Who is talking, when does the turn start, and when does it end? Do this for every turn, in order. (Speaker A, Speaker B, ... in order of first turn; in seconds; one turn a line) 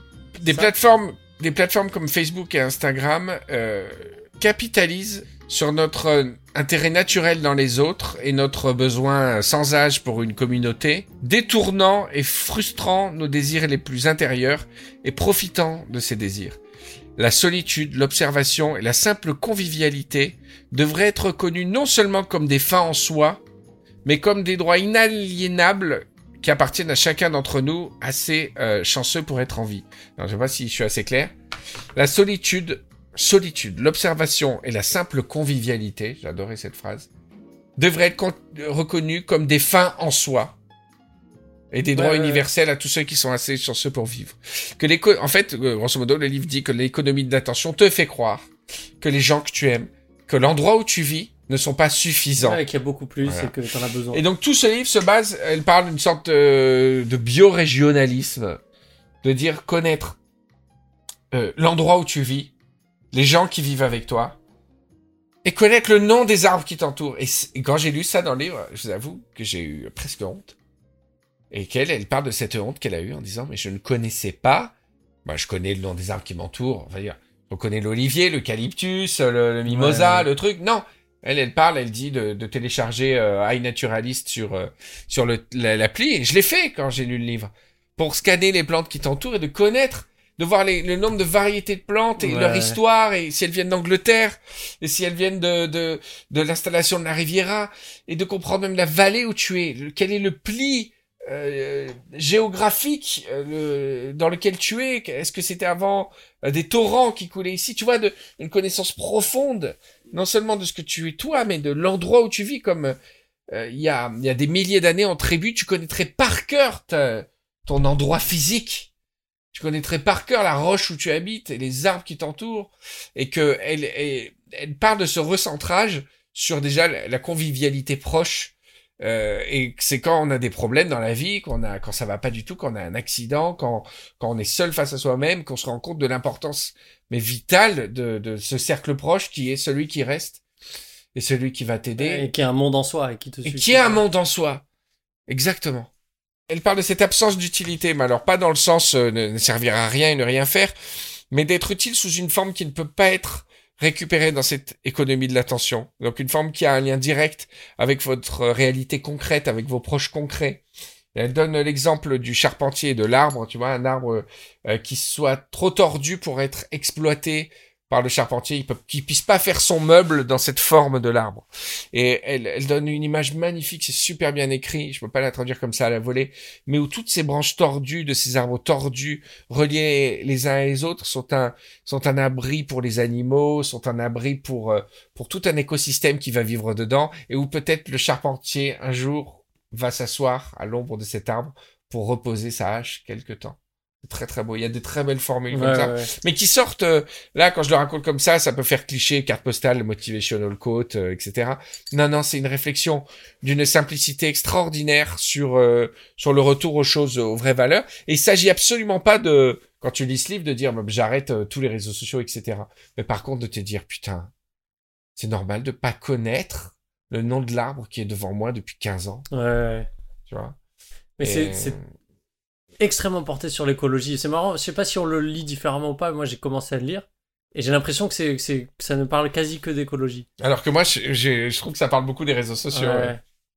Speaker A: 0.3-16.6
Speaker B: 0.5-0.7
Speaker A: 17.2-23.4
Speaker A: 24.1-31.3
Speaker A: 32.0-37.1
Speaker A: 37.8-40.6
Speaker A: 41.7-48.5
Speaker B: 42.0-42.5
Speaker A: 49.0-52.6
Speaker B: 52.4-54.2
Speaker A: 53.2-53.5
Speaker A: 54.1-58.6
Speaker A: 59.2-60.2
Speaker A: 61.3-62.5
Speaker A: 63.1-64.4
Speaker A: 65.4-70.6
Speaker A: 71.5-74.7
Speaker A: 75.2-113.0
Speaker B: 79.8-80.2
Speaker B: 92.2-92.8
Speaker A: 113.5-118.9
Speaker A: 119.5-140.4
Speaker A: 141.2-142.3
Speaker B: 142.0-144.0
Speaker A: 143.4-144.6
Speaker A: 145.3-145.9
Speaker A: 146.5-150.7
Speaker A: 151.3-160.6
Speaker A: 161.1-214.3
Speaker B: 195.5-196.1
Speaker A: 215.2-219.2
Speaker B: 219.3-219.9
Speaker A: 220.3-220.6
Speaker B: 221.2-221.8
Speaker A: 221.2-221.8
Speaker B: 222.8-230.3
Speaker A: 230.4-233.2
Speaker B: 232.7-233.2